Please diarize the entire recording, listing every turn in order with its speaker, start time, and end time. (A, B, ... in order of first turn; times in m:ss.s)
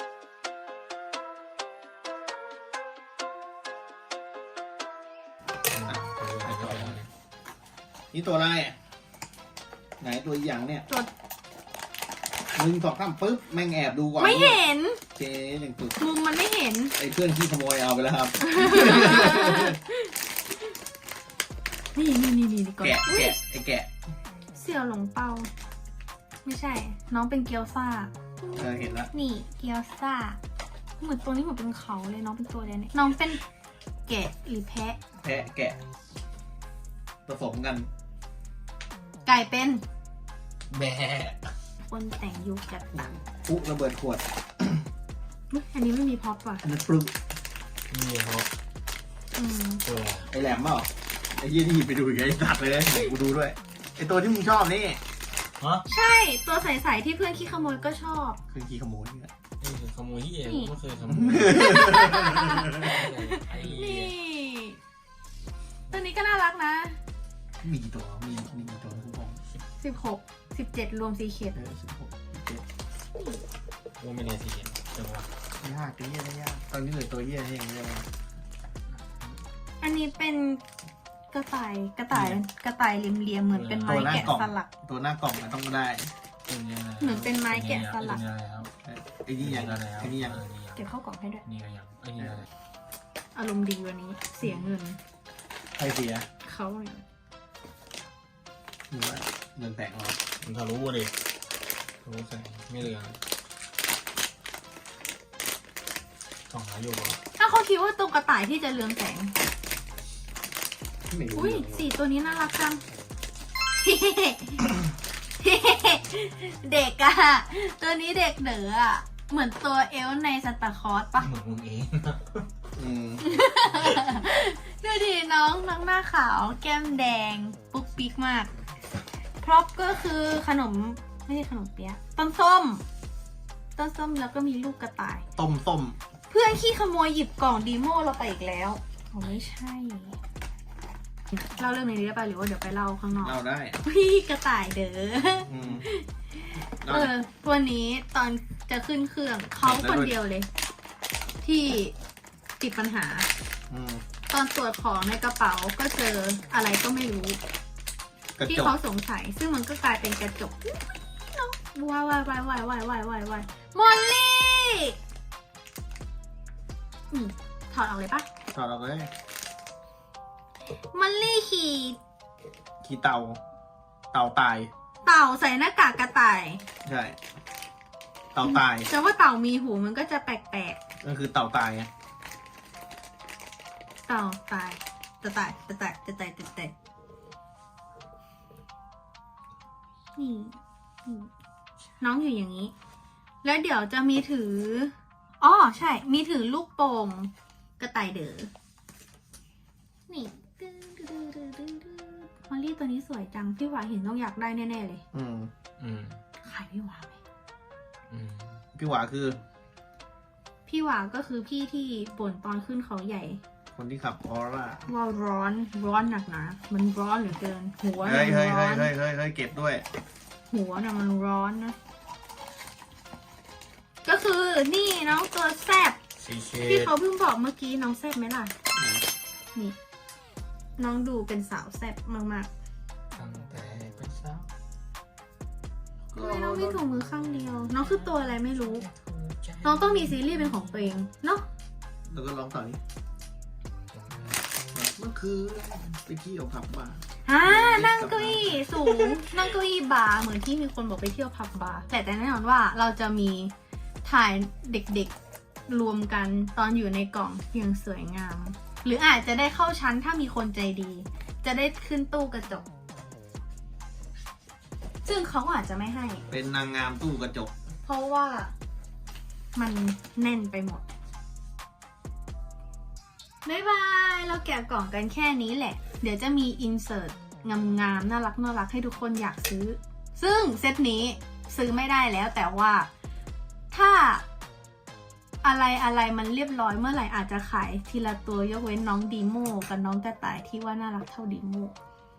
0:05.7-0:07.1 A
0:05.9-0:07.0 B
0:08.1-0:08.8 B
0:10.0-0:10.9 B
0:12.5-0:14.6 B
0:14.2-0:15.0 C
0:15.2-0:16.0 B
0:16.0-0:17.0 C
0:17.0-0:19.8 B
0:18.4-0:20.1 C
0:22.0-0:23.4 C
0:22.8-0:23.9 B
0:24.5-0:25.5 C
0:26.4-0:28.1 C
0:28.5-0:29.1 B
0:29.1-0:30.4 C
0:31.0-0:33.4 C
0:34.1-0:35.0 C
0:35.2-0:35.8 B
0:37.3-0:37.9 B
0:39.3-0:39.8 C
0:40.7-0:41.4 A
0:41.9-0:43.1 C
0:43.2-0:44.8 B
0:45.5-0:46.6 C
0:46.6-0:47.1 B
0:47.9-0:48.5 A
0:49.4-0:49.8 C
0:49.8-0:50.3 A
0:50.3-0:55.0 B
0:55.6-0:55.8 A
0:55.9-0:58.4 C
0:58.5-0:59.3 B
0:59.6-1:04.2 A
1:00.4-1:00.7 C
1:01.1-1:02.9 B
1:01.5-1:04.8 C
1:05.9-1:07.0 C
1:07.6-1:09.4 B
1:09.8-1:11.6 C
1:11.6-1:12.6 B
1:13.1-1:13.4 C
1:14.0-1:15.3 A
1:15.6-1:18.1 B
1:18.9-1:19.4 A
1:19.8-1:20.6 C
1:21.3-1:24.7 C
1:22.1-1:22.4 B
1:23.5-1:24.3 A
1:23.9-1:26.1 B
1:26.5-1:28.7 A
1:27.0-1:28.2 C
1:28.8-1:30.4 B
1:29.4-1:30.9 A
1:30.8-1:31.4 C
1:31.4-1:32.5 A
1:33.4-1:35.0 C
1:35.8-1:36.3 B
1:36.4-1:37.0 C
1:38.9-1:40.2 B
1:40.4-1:41.1 A
1:42.0-1:43.2 A
1:46.5-1:47.2 A
1:47.4-1:49.3 C
1:51.1-1:51.8 B
1:51.3-1:52.8 C
1:53.8-1:54.8 C
1:55.4-2:01.3 C
2:01.2-2:02.5 A
2:02.8-2:03.3 B
2:03.2-2:08.5 C
2:09.4-2:12.8 C
2:13.8-2:15.2 C
2:15.4-2:16.0 B
2:16.3-2:20.2 C
2:21.3-2:30.5 C
2:23.2-2:23.8 B
2:25.5-2:25.9 B
2:26.8-2:27.1 B
2:29.6-2:30.2 B
2:31.4-2:32.0 C
2:32.6-2:33.3 C
2:33.7-2:34.0 B
2:34.3-2:37.4 C
2:38.4-2:38.8 B
2:38.5-2:45.0 C
2:47.1-2:48.3 C
2:48.5-2:49.1 B
2:50.9-2:52.0 C
2:52.8-2:53.4 B
2:54.1-2:54.7 B
2:55.0-2:56.6 C
2:56.8-2:57.2 B
2:58.3-2:58.9 B
2:58.4-3:00.8 C
3:01.0-3:01.9 B
3:04.1-3:06.7 C
3:10.2-3:11.3 C
3:12.0-3:12.7 C
3:13.4-3:18.5 C
3:20.1-3:25.0 C
3:25.1-3:25.5 B
3:25.8-3:26.2 A
3:26.4-3:27.2 C
3:28.1-3:28.6 A
3:28.8-3:29.4 B
3:30.7-3:33.4 C
3:33.7-3:34.9 B
3:34.9-3:38.9 C
3:38.0-3:39.9 B
3:40.5-3:41.8 C
3:44.0-3:46.0 C
3:46.2-3:46.9 A
3:46.6-3:48.5 C
3:48.7-3:49.0 B
3:50.8-3:52.5 C
3:53.1-3:54.5 A
3:56.1-3:56.8 B
3:56.1-3:58.9 C
3:57.6-4:00.9 A
3:59.6-4:01.4 C
4:02.1-4:02.8 B
4:03.9-4:04.4 A
4:04.7-4:09.2 B
4:07.3-4:13.5 C
4:14.0-4:15.1 C
4:15.7-4:22.7 C
4:25.0-4:26.2 C
4:26.3-4:27.5 B
4:27.8-4:28.5 C
4:29.6-4:30.8 C
4:33.4-4:42.9 C
4:43.7-4:44.2 C
4:45.4-4:51.8 C